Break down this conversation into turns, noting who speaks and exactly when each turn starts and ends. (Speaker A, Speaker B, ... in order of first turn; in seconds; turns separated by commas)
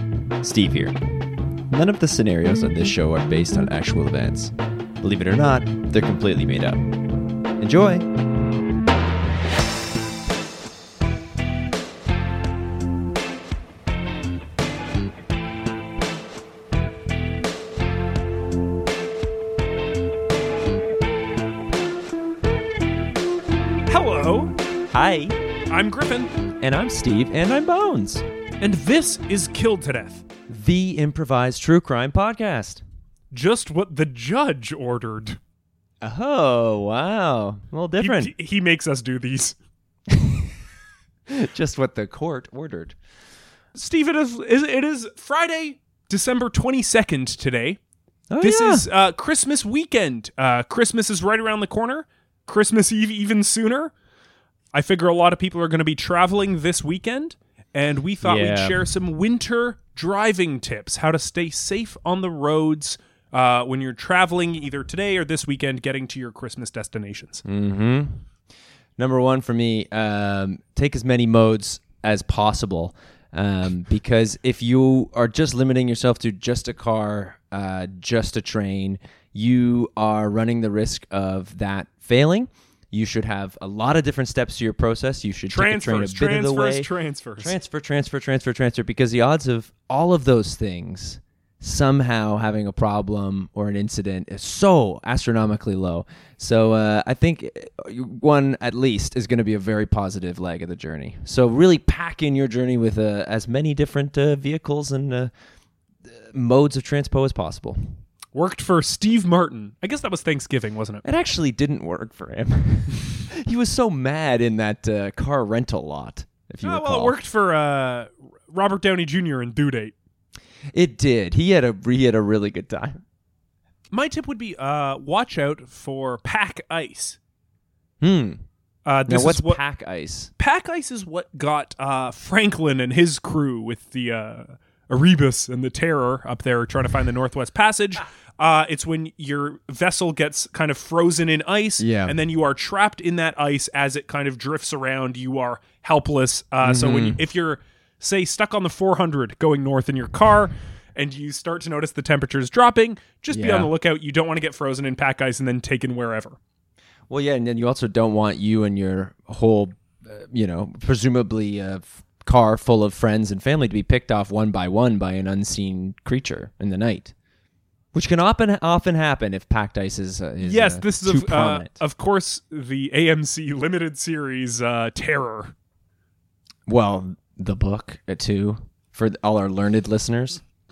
Speaker A: 0.4-1.0, Speaker A: 1.7-6.8, Speaker A: 7.6-8.1, Speaker B: 23.9-24.6, Speaker A: 24.9-25.4, Speaker B: 25.7-26.3, Speaker A: 26.6-28.2, Speaker B: 28.6-30.2, Speaker A: 30.5-32.8, Speaker B: 33.3-35.4, Speaker A: 36.0-38.3, Speaker B: 38.0-39.5, Speaker A: 40.1-40.5, Speaker A: 41.3-43.0, Speaker B: 43.8-47.8, Speaker A: 48.3-48.9, Speaker B: 48.4-53.9, Speaker B: 54.7-67.4, Speaker A: 58.2-58.8, Speaker A: 67.5-68.2, Speaker A: 69.0-86.9, Speaker B: 85.5-87.6, Speaker A: 87.4-105.3, Speaker A: 106.1-107.9, Speaker B: 108.3-111.0, Speaker A: 111.0-117.2, Speaker B: 116.6-120.0, Speaker A: 120.7-123.0, Speaker B: 123.9-127.2, Speaker A: 128.0-128.4, Speaker B: 128.9-129.6, Speaker A: 129.1-130.3, Speaker B: 130.4-156.4, Speaker A: 141.8-142.2, Speaker A: 146.6-147.2, Speaker A: 153.3-153.7, Speaker A: 157.1-167.1, Speaker A: 167.9-171.8, Speaker B: 170.4-175.5, Speaker A: 176.7-180.4